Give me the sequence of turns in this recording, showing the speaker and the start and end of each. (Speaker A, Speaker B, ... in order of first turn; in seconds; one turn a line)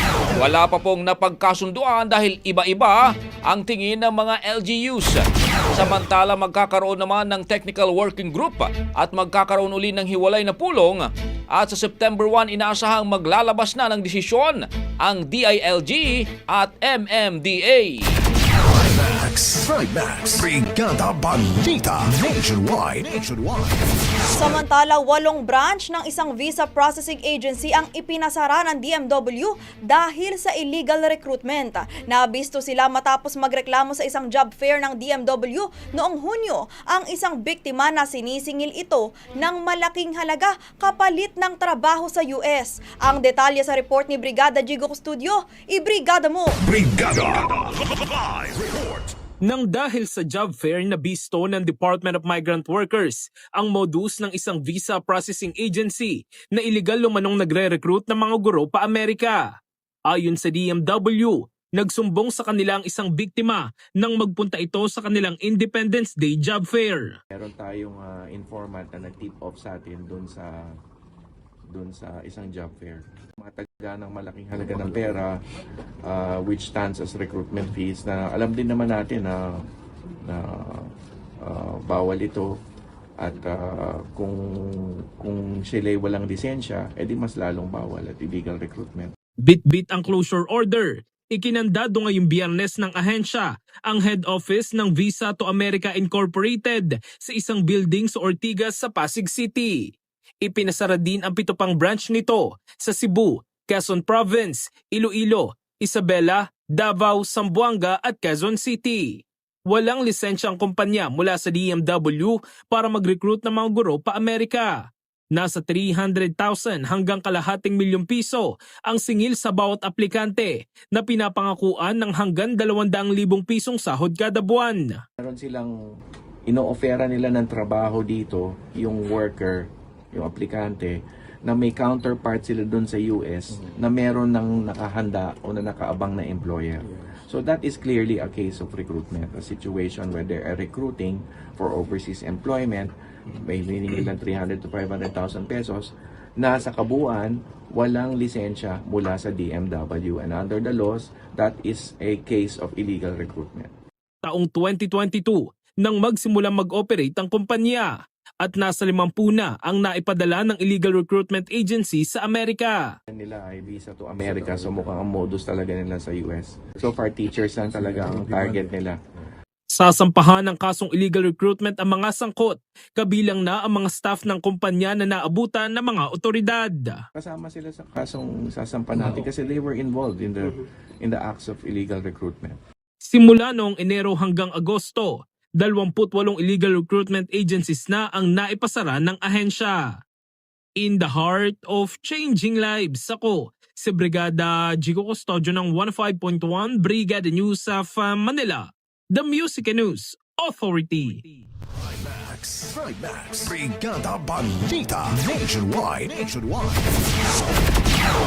Speaker A: 0.3-18.2
Speaker B: 18.6-24.2
Speaker C: 24.4-46.6
Speaker B: 46.6-49.1
Speaker D: 49.4-59.5
Speaker D: 60.1-67.1
Speaker E: 67.3-70.7
Speaker E: 71.7-75.3
Speaker E: 76.0-79.6
Speaker E: 80.2-80.9
Speaker E: 81.4-82.5
Speaker E: 83.2-89.1
Speaker D: 89.4-125.0
Speaker E: 125.2-125.7
Speaker E: 126.5-153.7
Speaker D: 154.2-162.9
Speaker E: 163.1-169.0
Speaker D: 169.7-177.0
Speaker E: 177.1-182.6
Speaker D: 183.1-190.0
Speaker D: 190.8-201.4
Speaker B: 201.8-207.3